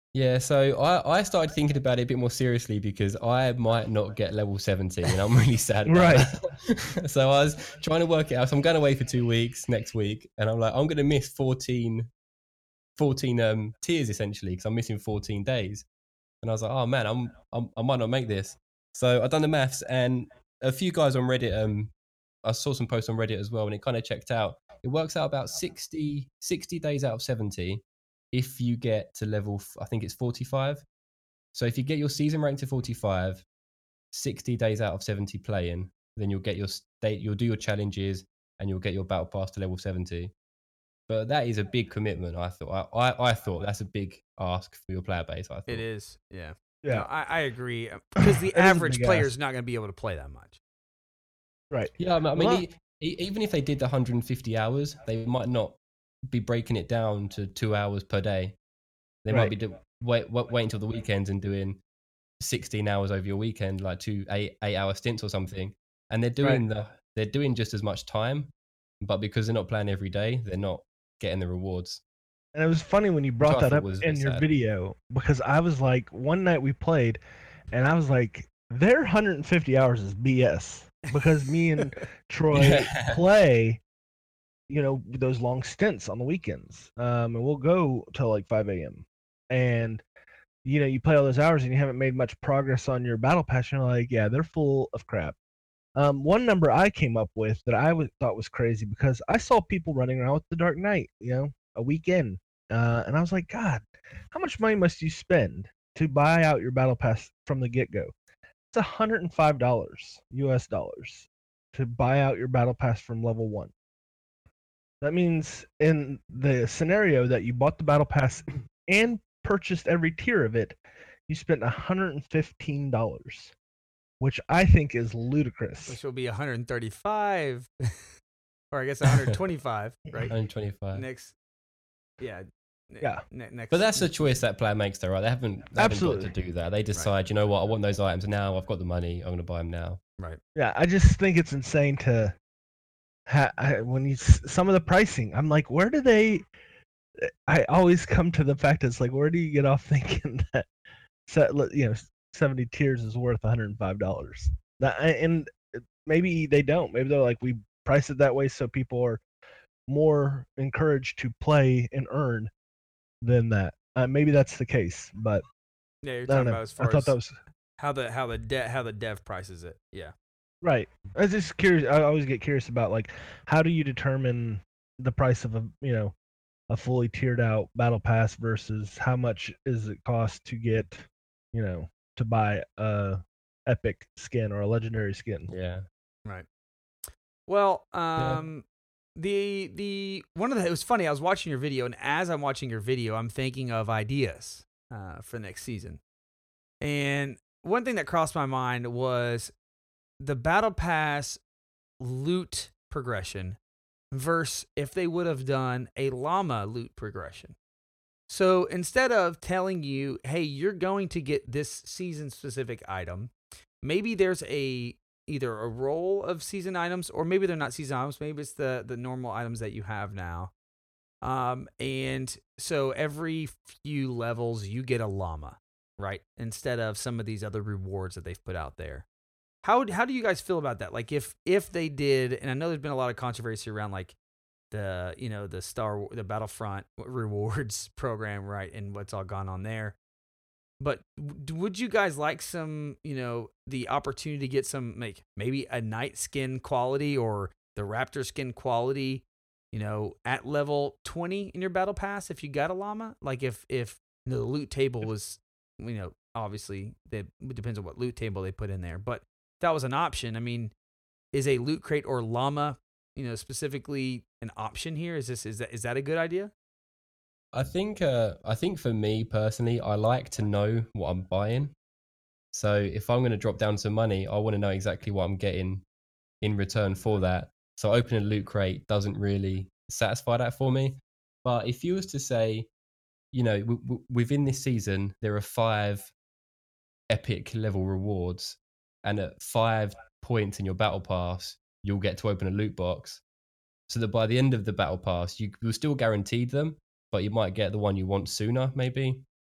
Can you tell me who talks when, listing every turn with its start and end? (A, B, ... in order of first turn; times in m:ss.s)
0:00.1-0:12.1 A
0:05.9-0:06.3 B
0:13.0-0:15.8 A
0:16.4-0:21.9 A
0:22.4-0:27.8 A
0:28.3-0:30.8 A
0:31.5-0:33.4 A
0:34.1-0:40.3 A
0:41.1-0:45.8 A
0:45.7-0:50.6 C
0:48.2-0:49.3 B
0:51.7-0:52.6 B
0:52.0-0:58.5 A
0:59.2-1:01.8 A
1:02.4-1:12.0 A
1:12.5-1:23.8 B
1:13.4-1:14.4 A
1:22.5-1:23.2 A
1:24.7-1:30.0 B
1:30.6-1:35.3 B
1:36.0-1:48.1 B
1:48.7-1:53.7 B
1:55.0-2:00.8 B
2:01.3-2:03.5 B
2:04.2-2:06.0 B
2:05.9-2:08.1 C
2:08.7-2:10.3 C
2:10.3-2:11.0 A
2:10.9-2:11.3 C
2:12.2-2:14.1 C
2:13.7-2:20.0 A
2:15.8-2:16.3 B
2:20.5-2:22.4 B
2:23.3-2:26.4 B
2:27.2-2:30.7 B
2:31.3-2:39.2 B
2:39.9-2:42.5 B
2:43.2-2:45.4 B
2:46.0-2:47.2 C
2:46.3-2:47.4 B
2:47.8-2:50.1 C
2:50.6-2:56.1 B
2:56.7-3:05.5 B
3:05.5-3:05.8 A
3:07.5-3:08.6 C
3:08.2-3:08.4 A
3:09.2-3:16.0 C
3:16.8-3:19.5 C
3:20.2-3:21.4 C
3:22.0-3:23.6 C
3:24.1-3:27.5 C
3:28.3-3:40.5 C
3:41.2-3:49.0 C
3:49.6-3:54.1 C
3:54.7-4:00.0 C
4:00.8-4:20.7 C
4:21.3-4:26.5 C
4:27.5-4:31.7 A
4:32.5-4:35.8 A
4:36.4-4:42.7 A
4:43.3-4:46.1 A
4:47.1-4:53.2 A
4:53.9-4:59.2 A